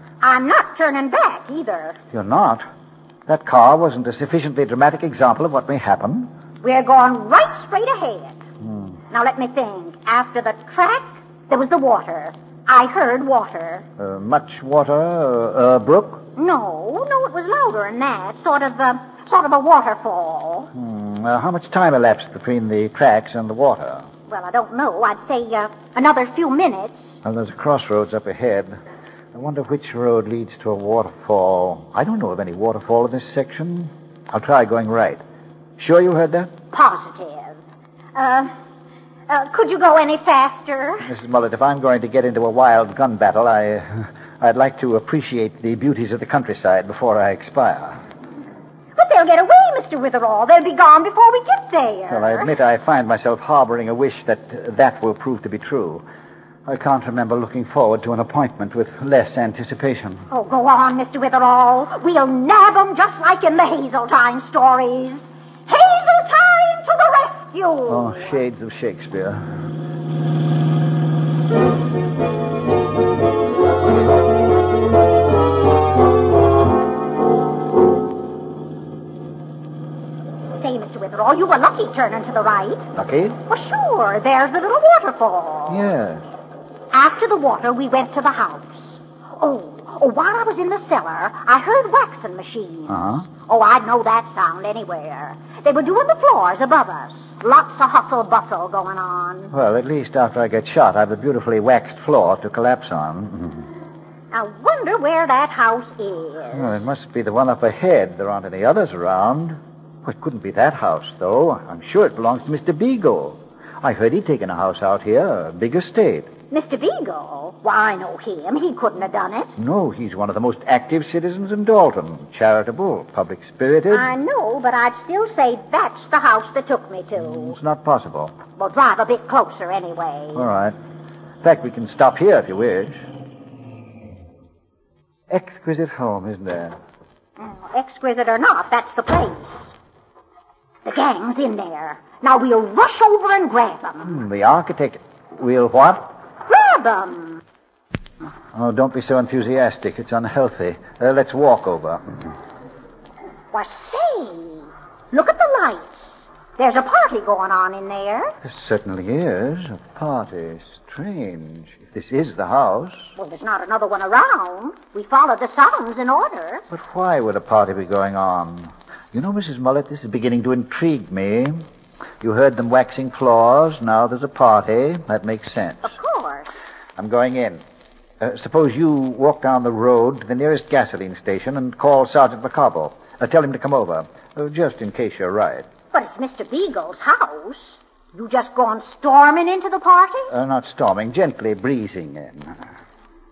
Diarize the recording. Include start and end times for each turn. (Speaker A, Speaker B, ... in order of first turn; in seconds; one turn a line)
Speaker A: 0.2-2.0
Speaker B: 2.1-2.6
Speaker B: 3.3-6.3
Speaker A: 6.6-8.4
Speaker B: 8.6-8.9
Speaker A: 9.1-13.8
Speaker B: 14.0-16.2
Speaker A: 16.4-20.7
Speaker B: 20.7-24.1
Speaker A: 24.3-27.2
Speaker B: 27.2-28.8
Speaker B: 29.3-35.2
Speaker B: 35.8-36.5
Speaker A: 36.7-37.6
Speaker A: 38.1-38.5
Speaker A: 39.3-41.1
Speaker B: 41.0-48.0
Speaker A: 49.0-52.5
Speaker B: 52.1-56.0
Speaker B: 56.6-60.2
Speaker A: 60.3-68.2
Speaker B: 67.9-69.5
Speaker A: 80.6-82.9
Speaker B: 82.9-83.4
Speaker A: 83.5-85.8
Speaker B: 85.7-86.2
Speaker A: 86.9-99.5
Speaker B: 92.9-93.2
Speaker B: 99.5-103.7
Speaker A: 104.3-106.8
Speaker B: 106.5-116.3
Speaker A: 116.5-119.5
Speaker B: 119.6-124.1
Speaker A: 123.9-127.5
Speaker B: 127.2-128.3
Speaker A: 128.6-130.5
Speaker B: 130.3-130.8
Speaker B: 131.4-133.0
Speaker B: 135.3-136.8
Speaker A: 137.4-139.7
Speaker A: 140.8-144.2
Speaker B: 144.0-146.1
Speaker A: 146.5-147.4
Speaker B: 148.5-152.2
Speaker A: 153.5-158.3
Speaker B: 158.4-163.1
Speaker A: 163.2-166.6
Speaker B: 166.7-171.7
Speaker B: 172.2-175.9
Speaker A: 175.8-176.5
Speaker B: 177.0-177.6
Speaker B: 178.2-185.7
Speaker A: 185.9-190.3
Speaker B: 190.3-192.6